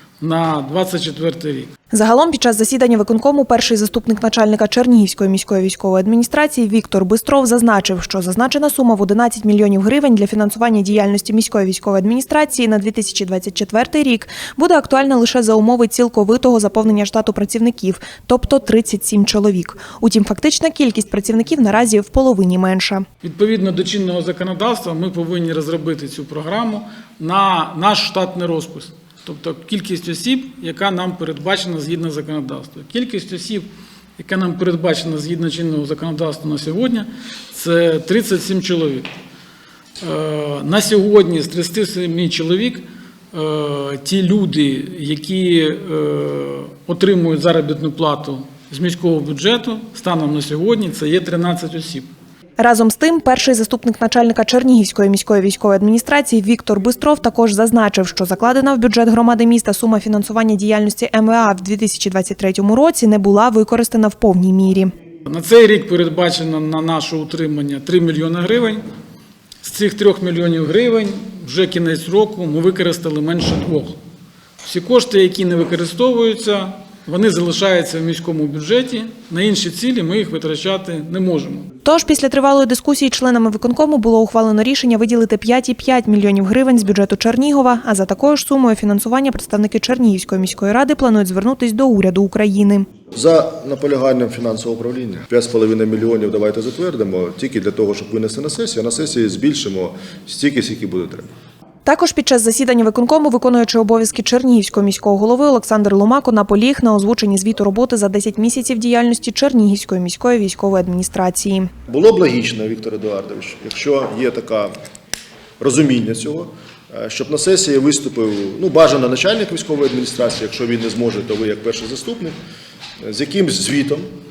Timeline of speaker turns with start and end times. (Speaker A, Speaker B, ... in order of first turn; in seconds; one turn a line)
Speaker A: 0.2-1.7
Speaker B: 1.9-23.0
Speaker A: 23.2-39.1
Speaker A: 40.0-52.1
Speaker B: 52.6-64.9
Speaker A: 65.2-68.8
Speaker A: 69.6-74.0
Speaker A: 74.6-81.7
Speaker B: 81.8-92.9
Speaker C: 93.1-101.3
Speaker B: 101.8-111.7
Speaker C: 111.9-114.7
Speaker C: 115.6-122.3
Speaker C: 123.0-124.1